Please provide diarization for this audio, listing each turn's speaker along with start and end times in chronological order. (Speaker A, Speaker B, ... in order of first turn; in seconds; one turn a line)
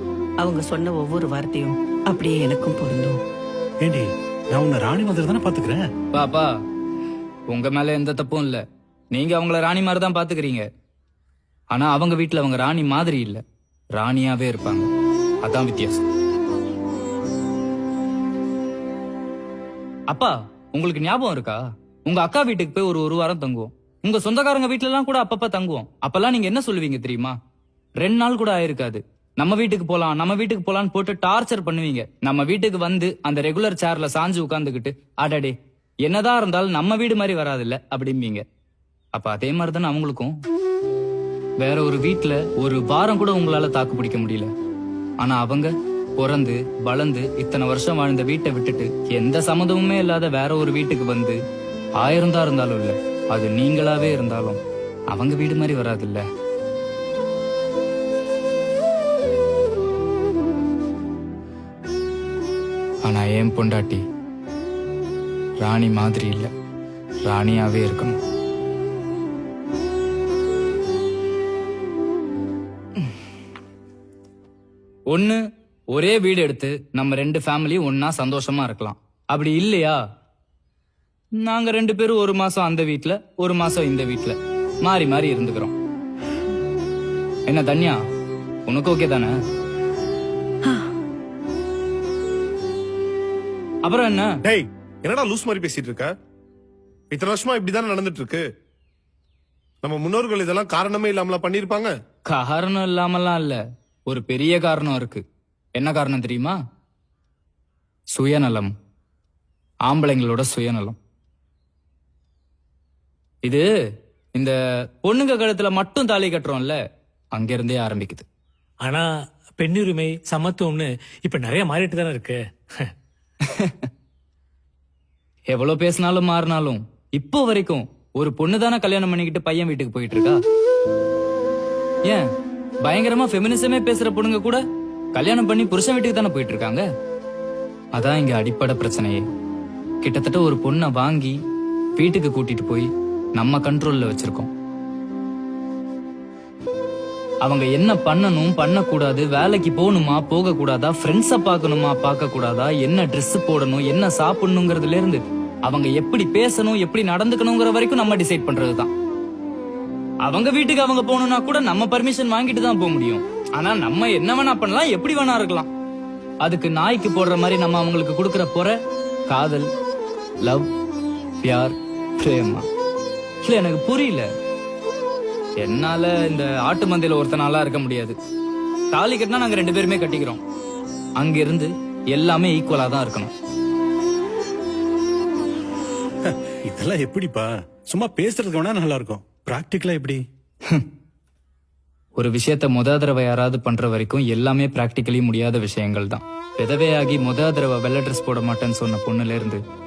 Speaker A: 0.4-3.2
Speaker B: 3.8-5.8
Speaker C: 6.1-6.5
Speaker C: 7.5-10.6
Speaker C: 11.7-13.4
Speaker C: 13.9-14.9
Speaker C: 15.4-16.0
Speaker C: 20.1-27.4
Speaker C: 28.0-38.4
Speaker C: 39.1-40.3
Speaker C: 41.6-44.5
Speaker C: 45.2-51.4
Speaker C: 52.0-54.6
Speaker C: 55.1-56.2
Speaker C: 63.0-64.0
Speaker C: 65.6-66.5
Speaker C: 67.3-68.2
Speaker C: 75.1-75.4
Speaker C: 75.9-80.0
Speaker C: 81.4-85.7
Speaker C: 87.5-88.0
Speaker C: 88.7-89.4
Speaker C: 93.8-94.3
Speaker D: 94.4-96.1
Speaker D: 97.1-98.5
Speaker D: 99.8-102.0
Speaker C: 102.3-105.2
Speaker C: 105.8-106.6
Speaker C: 108.1-108.7
Speaker C: 109.8-111.0
Speaker C: 114.3-116.8
Speaker C: 117.3-118.2
Speaker E: 119.6-122.9
Speaker C: 123.5-123.8
Speaker C: 125.5-130.4
Speaker C: 132.8-134.6
Speaker C: 135.1-136.8
Speaker C: 137.9-139.2
Speaker C: 140.0-141.4
Speaker C: 142.0-144.5
Speaker C: 147.4-158.9
Speaker C: 160.2-165.7
Speaker C: 166.4-168.8
Speaker C: 169.3-169.7
Speaker C: 170.4-170.7
Speaker C: 171.4-172.7
Speaker C: 173.4-174.3
Speaker C: 175.6-178.2
Speaker C: 178.9-180.4
Speaker C: 181.2-183.3
Speaker B: 186.2-190.2
Speaker C: 192.2-199.6